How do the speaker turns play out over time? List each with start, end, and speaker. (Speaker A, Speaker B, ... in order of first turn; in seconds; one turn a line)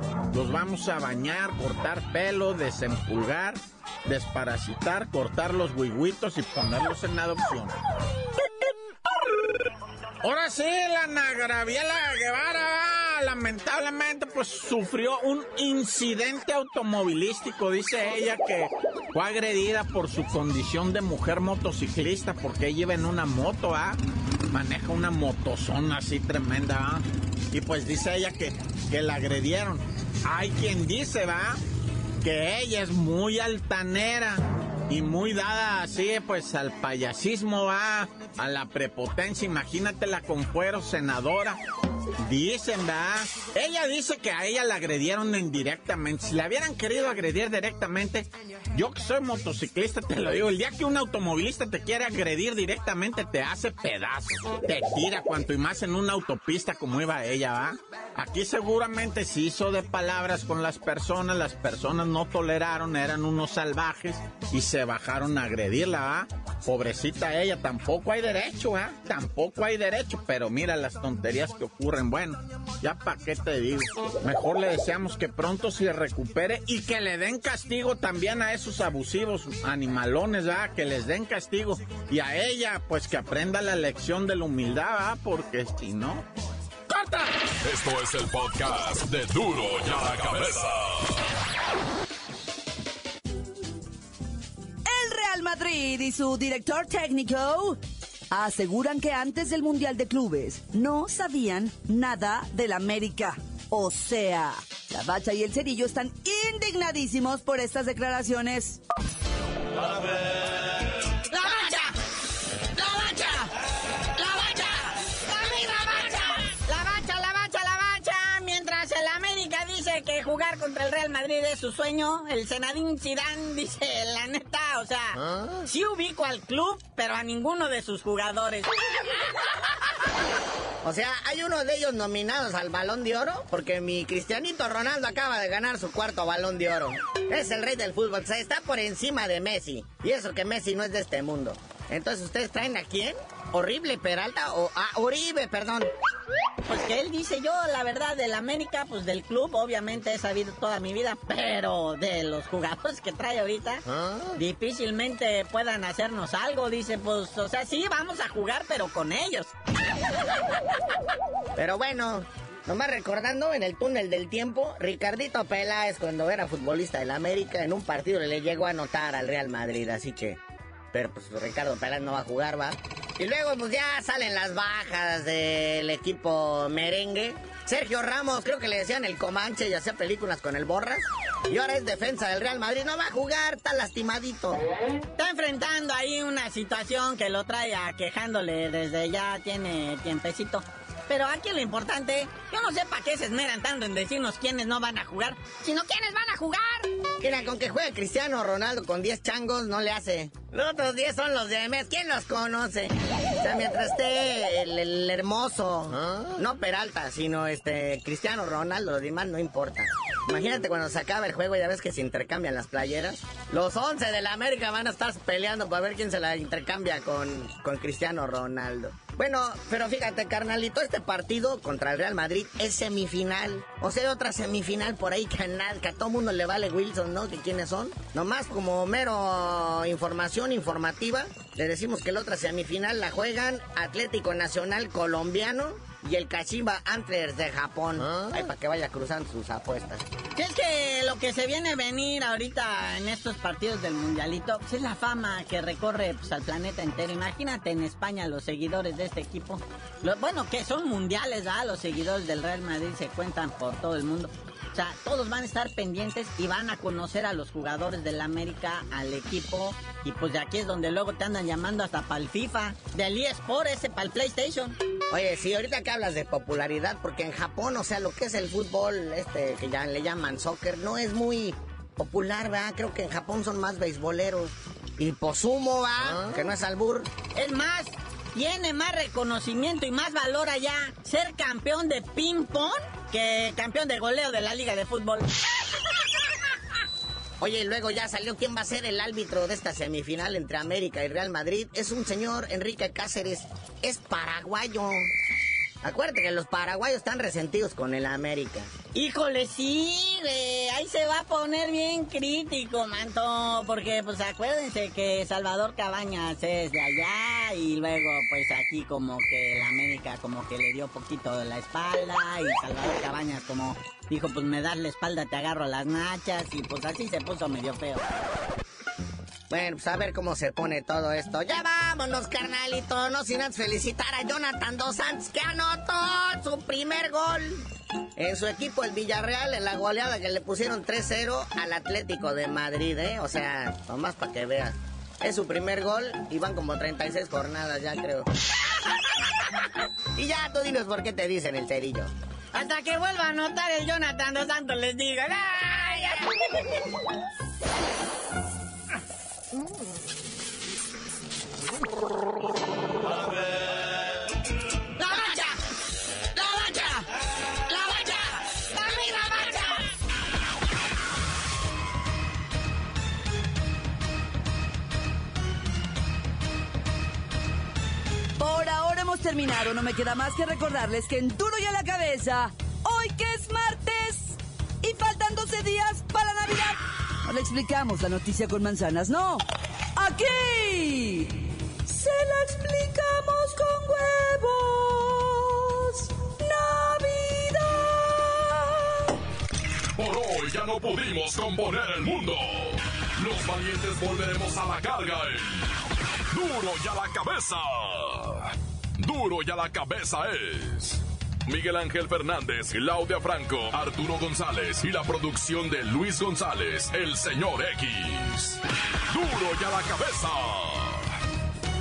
Speaker A: 0.3-7.8
Speaker A: 10.2-24.0
Speaker A: 24.5-31.6
Speaker A: 32.2-41.6
Speaker A: 42.2-86.2
Speaker A: 86.9-87.3
Speaker B: 87.6-91.2
Speaker C: 94.9-97.8
Speaker C: 98.3-108.8
Speaker D: 111.3-111.9
Speaker D: 112.8-113.5
Speaker D: 114.2-128.7
Speaker E: 130.8-145.9
Speaker D: 146.7-153.8
Speaker D: 154.4-159.5
Speaker E: 161.6-170.4
Speaker E: 170.9-184.6
Speaker D: 185.2-196.9
Speaker E: 197.2-240.1
Speaker D: 240.3-264.8
Speaker E: 265.1-277.1
Speaker D: 277.3-285.3
Speaker E: 287.4-295.1
Speaker E: 295.8-298.7
Speaker D: 298.9-318.1
Speaker E: 319.5-327.7
Speaker E: 328.2-338.3
Speaker E: 340.2-342.1
Speaker D: 342.5-346.8
Speaker D: 355.0-355.6
Speaker D: 356.4-357.1
Speaker D: 357.7-359.8
Speaker C: 368.4-379.4
Speaker C: 379.9-388.9
Speaker B: 390.0-411.1